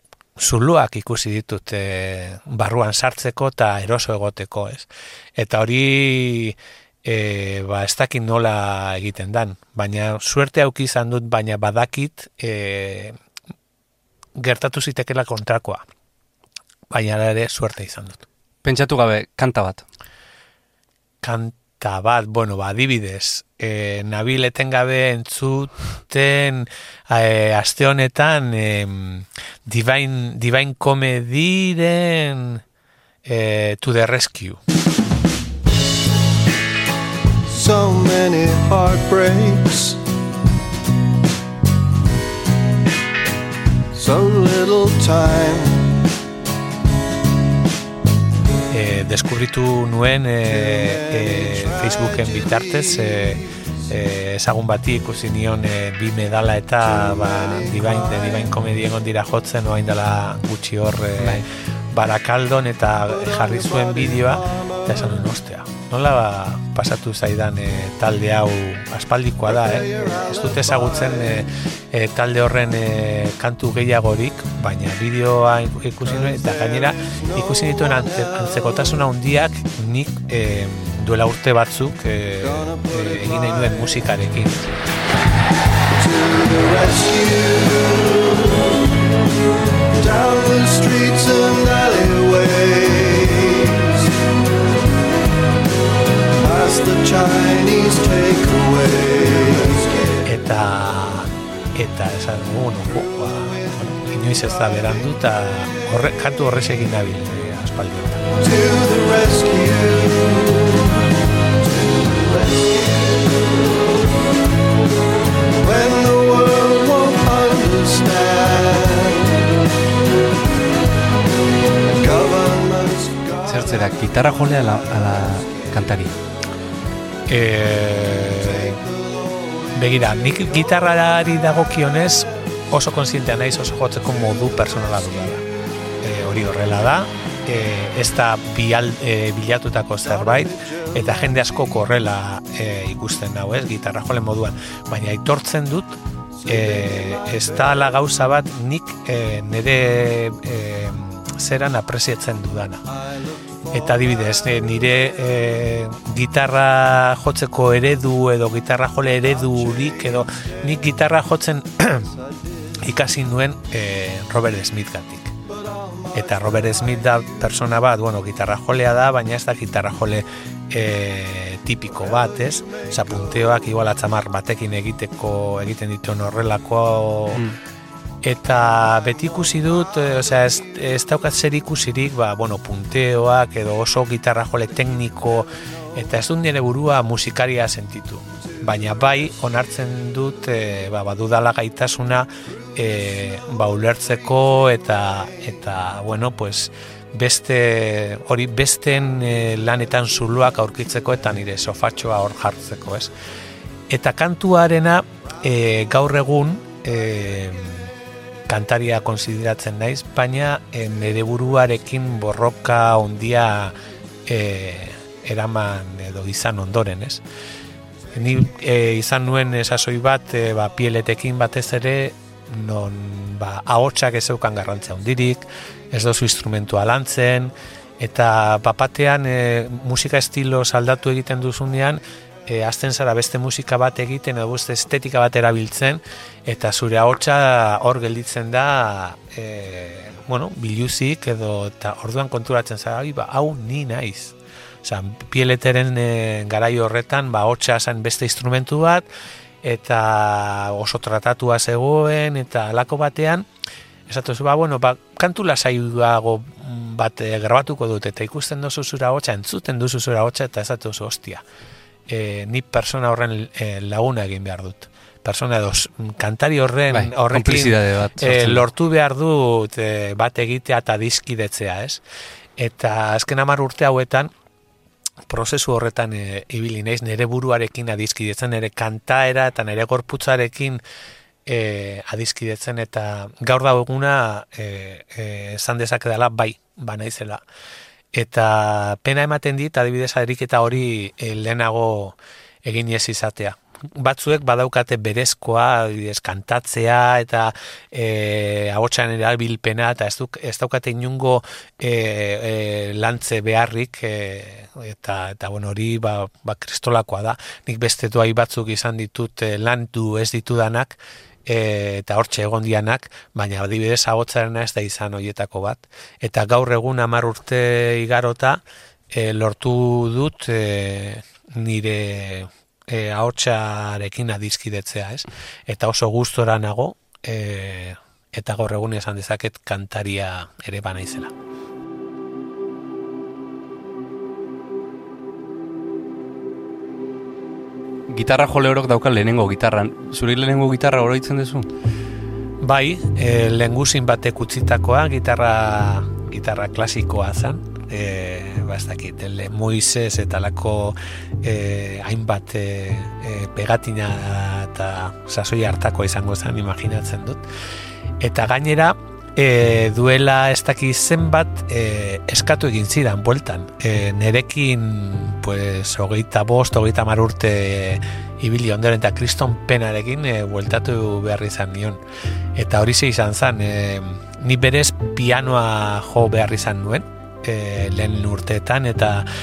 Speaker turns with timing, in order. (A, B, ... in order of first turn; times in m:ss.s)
0:00.4-0:13.2 A
0:14.4-0:15.8 A
0:16.9-0:18.2 A
0:18.6-0:19.8 B
0:21.2-0:32.6 A
0:33.2-0:34.6 A
0:37.5-0:40.0 C
0:43.9-0:46.0 C
0:48.7-1:24.7 A
0:50.6-0:53.4 C
1:01.2-1:01.4 B
1:03.5-1:04.8 C
1:09.7-1:11.2 C
1:16.4-1:17.7 C
1:22.5-1:23.7 C
1:25.9-1:28.9 C
1:29.9-1:34.2 C
1:36.4-1:40.3 C
1:40.2-1:48.2 A
1:48.4-1:53.7 C
1:55.6-1:59.6 C
2:01.9-2:03.9 C
2:03.5-2:06.2 B
2:07.3-2:08.8 A
2:09.7-2:15.4 A
2:16.0-2:32.8 A
2:33.7-2:42.1 A
2:42.8-2:45.3 A
2:45.5-2:46.1 C
2:46.1-2:57.4 A
2:58.2-3:23.1 A
3:23.9-3:27.9 A
3:28.5-3:33.7 A
3:34.3-3:37.2 A
3:38.1-4:09.1 A
4:09.6-4:13.5 A
4:14.1-4:21.4 A
4:22.1-4:32.0 A
4:26.9-4:28.6 B
4:32.6-4:34.3 A
4:35.3-4:40.8 A
4:41.5-4:47.4 A
4:48.1-5:31.3 A
5:38.1-5:41.7 B
5:42.6-5:57.4 A
5:58.2-6:12.0 A
6:12.6-6:19.3 A